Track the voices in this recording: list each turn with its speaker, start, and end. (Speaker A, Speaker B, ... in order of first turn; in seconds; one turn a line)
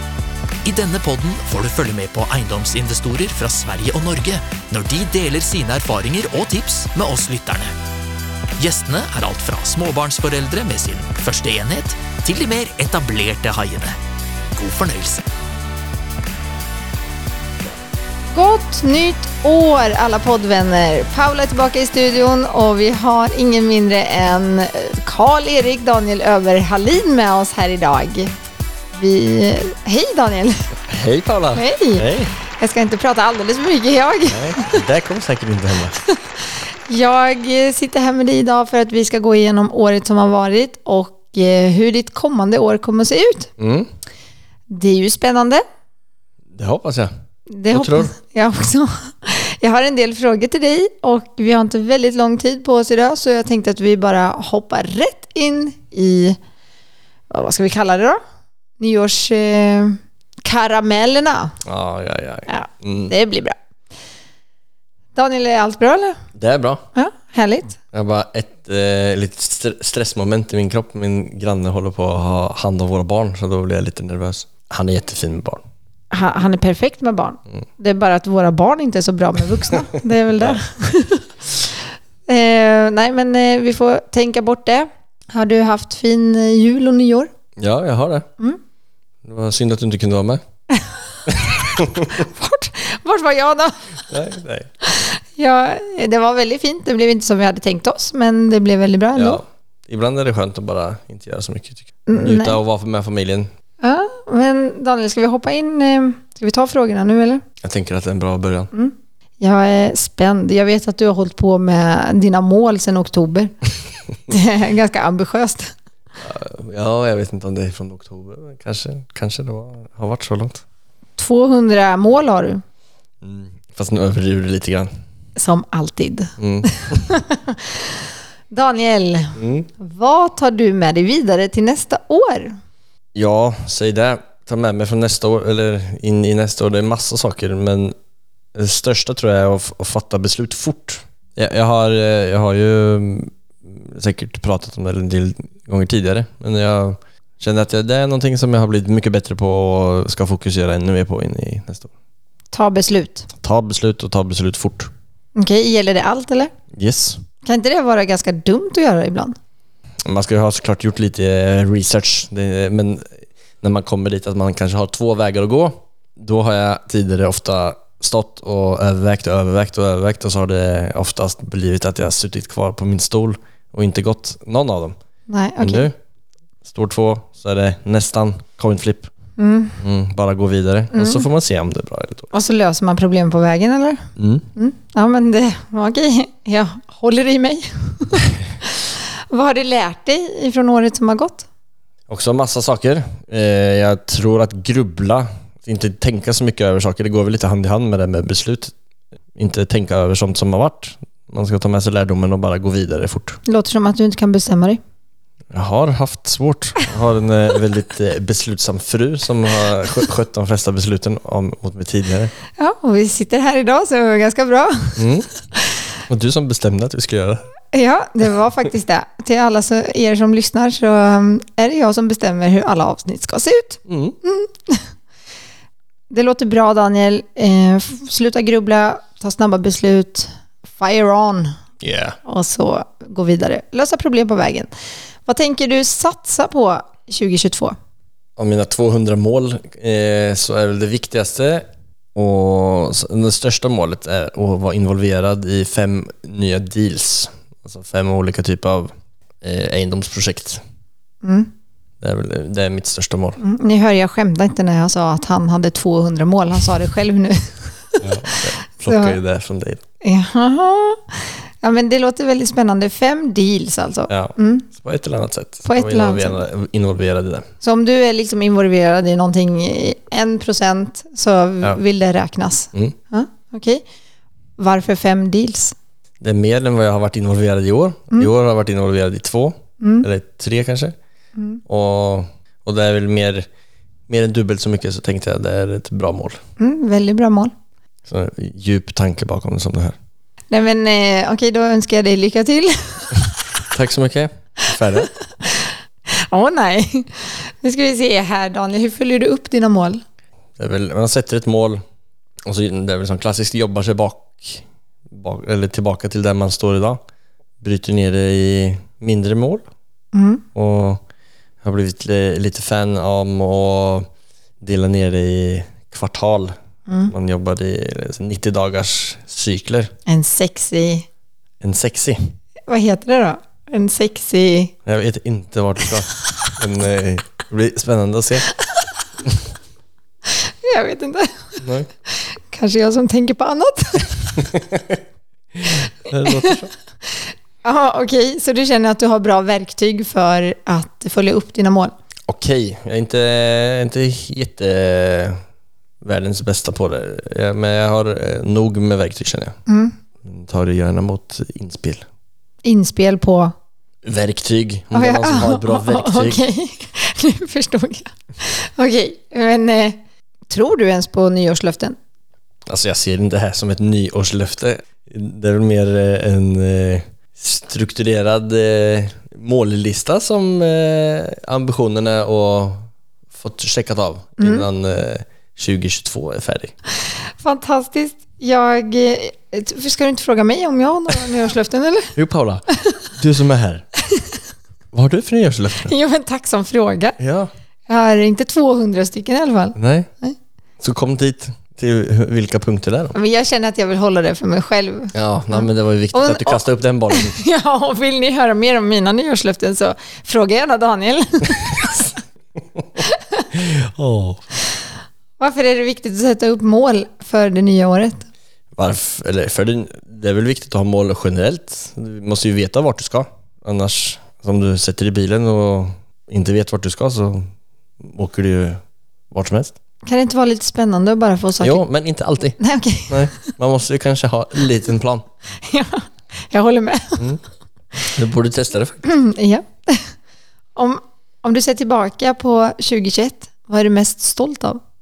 Speaker A: 0.6-7.7
Speaker A: 8.6-14.0
Speaker A: 14.6-15.2
Speaker B: 18.3-28.3
Speaker B: 28.9-30.7
Speaker C: 30.9-32.3
Speaker B: 31.5-34.8
Speaker C: 34.3-36.0
Speaker B: 36.0-43.5
Speaker C: 43.6-43.9
Speaker B: 44.7-45.6
Speaker C: 46.5-47.1
Speaker B: 47.5-56.4
Speaker C: 47.7-48.1
Speaker B: 57.3-58.2
Speaker B: 58.8-61.5
Speaker C: 61.6-63.1
Speaker B: 62.5-63.5
Speaker B: 65.1-66.2
Speaker C: 66.3-66.8
Speaker B: 66.9-67.8
Speaker C: 67.9-75.6
Speaker B: 76.1-81.7
Speaker C: 80.3-80.6
Speaker B: 82.2-87.3
Speaker C: 87.6-88.3
Speaker C: 89.2-90.4
Speaker B: 90.7-91.3
Speaker C: 91.3-92.2
Speaker B: 91.9-94.1
Speaker C: 94.1-94.7
Speaker B: 94.8-99.4
Speaker C: 99.1-103.5
Speaker B: 102.1-102.6
Speaker B: 103.8-107.4
Speaker C: 107.6-108.7
Speaker B: 108.7-113.5
Speaker B: 114.3-115.7
Speaker C: 116.2-120.6
Speaker B: 121.2-122.6
Speaker C: 123.2-124.9
Speaker B: 125.3-128.0
Speaker C: 126.4-127.1
Speaker B: 128.5-132.6
Speaker C: 129.3-129.7
Speaker C: 133.1-137.9
Speaker C: 138.5-151.9
Speaker B: 152.5-153.3
Speaker C: 153.3-154.9
Speaker B: 155.3-156.5
Speaker C: 156.7-157.2
Speaker B: 157.4-159.3
Speaker C: 160.0-174.9
Speaker B: 175.3-175.9
Speaker C: 175.6-175.9
Speaker C: 176.6-179.1
Speaker B: 179.4-179.8
Speaker C: 179.8-182.3
Speaker B: 180.9-181.2
Speaker B: 182.3-191.5
Speaker C: 184.2-184.5
Speaker C: 192.1-198.7
Speaker C: 199.3-203.4
Speaker B: 203.4-204.8
Speaker C: 205.5-212.3
Speaker B: 212.6-215.1
Speaker C: 215.0-215.3
Speaker C: 216.1-217.5
Speaker B: 217.7-224.9
Speaker C: 223.9-224.2
Speaker B: 226.1-231.6
Speaker C: 231.8-232.2
Speaker B: 232.2-234.7
Speaker B: 235.2-237.8
Speaker C: 238.4-250.6
Speaker B: 251.2-251.5
Speaker C: 252.0-253.4
Speaker B: 253.4-259.2
Speaker C: 258.0-259.8
Speaker B: 260.0-264.7
Speaker C: 264.1-267.5
Speaker B: 265.6-266.4
Speaker B: 267.6-273.8
Speaker B: 274.6-275.7
Speaker C: 276.2-280.9
Speaker B: 279.8-280.1
Speaker B: 281.4-281.6
Speaker C: 281.6-283.5
Speaker C: 284.1-286.4
Speaker B: 286.6-287.5
Speaker C: 288.1-289.9
Speaker B: 290.5-293.4
Speaker C: 293.7-295.1
Speaker B: 295.0-300.0
Speaker C: 300.6-301.8
Speaker C: 302.4-307.0
Speaker C: 307.6-309.6
Speaker B: 310.1-310.4
Speaker C: 310.5-311.0
Speaker C: 311.6-314.1
Speaker C: 314.6-316.6
Speaker C: 317.1-319.9
Speaker B: 320.1-321.1
Speaker C: 321.6-322.3
Speaker B: 322.7-324.7
Speaker C: 324.8-328.5
Speaker B: 330.3-334.4
Speaker C: 331.6-331.9
Speaker C: 334.4-335.0
Speaker C: 335.6-336.7
Speaker B: 336.2-336.6
Speaker B: 337.6-341.9
Speaker C: 342.3-345.4
Speaker C: 346.0-349.6
Speaker B: 349.7-349.9
Speaker C: 350.2-352.1
Speaker B: 352.6-353.5
Speaker C: 354.0-356.4
Speaker B: 354.9-362.0
Speaker C: 362.7-376.7
Speaker B: 374.4-374.6
Speaker B: 377.4-382.1
Speaker C: 382.1-383.9
Speaker C: 384.9-385.9
Speaker B: 385.8-387.2
Speaker C: 387.2-387.5
Speaker B: 387.9-390.3
Speaker C: 389.8-390.1
Speaker C: 390.8-393.1
Speaker B: 393.1-402.2
Speaker C: 395.1-397.4
Speaker B: 403.0-403.5
Speaker C: 403.5-404.4
Speaker B: 405.4-408.2
Speaker C: 408.7-419.8
Speaker B: 420.0-421.8
Speaker C: 421.6-425.2
Speaker B: 422.6-423.5
Speaker B: 425.6-427.2
Speaker C: 428.0-429.1
Speaker B: 429.0-430.1
Speaker B: 430.7-434.8